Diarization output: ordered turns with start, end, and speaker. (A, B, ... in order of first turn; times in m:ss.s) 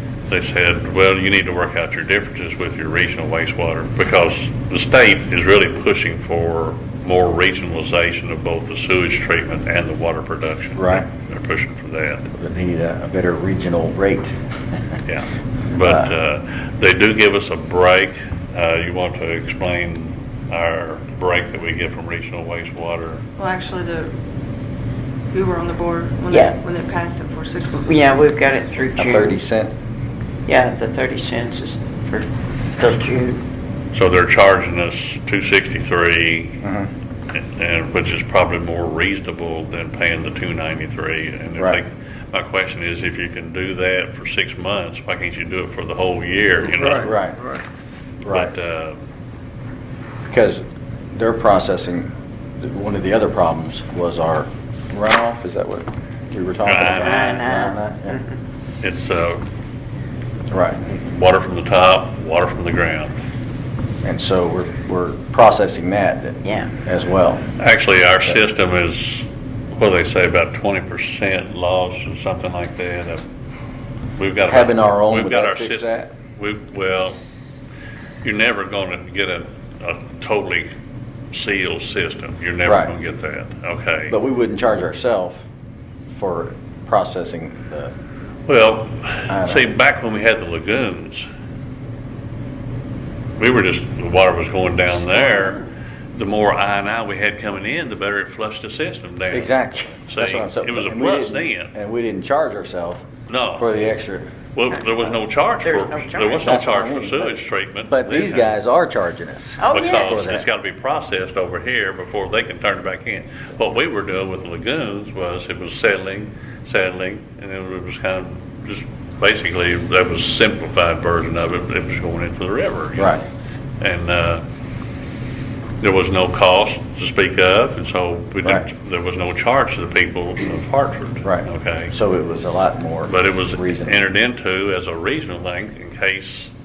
0:00.3-0:12.2 A
0:10.8-0:11.0 B
0:12.3-0:14.4 B
0:15.0-0:23.2 A
0:15.8-0:16.1 B
0:23.4-0:24.1 C
0:25.3-0:28.0 C
0:26.3-0:26.6 D
0:27.8-0:29.4 D
0:29.0-0:29.7 B
0:30.5-0:33.4 D
0:33.9-0:36.6 A
0:36.6-0:36.9 B
0:37.3-0:47.1 A
0:46.8-0:47.6 B
0:48.2-0:48.5 B
0:48.3-0:49.0 A
0:50.2-0:58.2 B
0:56.6-0:57.4 A
0:56.9-0:58.4 D
0:58.8-0:59.4 A
1:00.5-1:00.8 B
1:00.9-1:03.1 A
1:04.0-1:07.4 B
1:06.4-1:06.7 D
1:07.6-1:09.2 A
1:09.8-1:13.2 A
1:14.2-1:17.2 A
1:14.5-1:16.1 B
1:18.2-1:20.7 A
1:21.3-1:24.1 A
1:22.6-1:22.9 B
1:24.1-1:25.4 B
1:26.1-1:27.9 B
1:28.5-1:31.2 A
1:29.3-1:29.6 B
1:33.4-1:35.6 A
1:35.2-1:35.5 D
1:36.1-1:41.7 A
1:39.3-1:43.0 B
1:43.3-1:43.7 A
1:43.6-1:44.3 B
1:44.5-1:48.5 A
1:45.6-1:46.5 D
1:46.4-1:47.4 B
1:47.9-1:50.4 B
1:49.6-1:50.2 D
1:49.6-2:03.2 A
2:03.0-2:03.2 B
2:03.8-2:04.4 A
2:05.8-2:11.9 A
2:11.2-2:14.0 B
2:13.0-2:16.5 A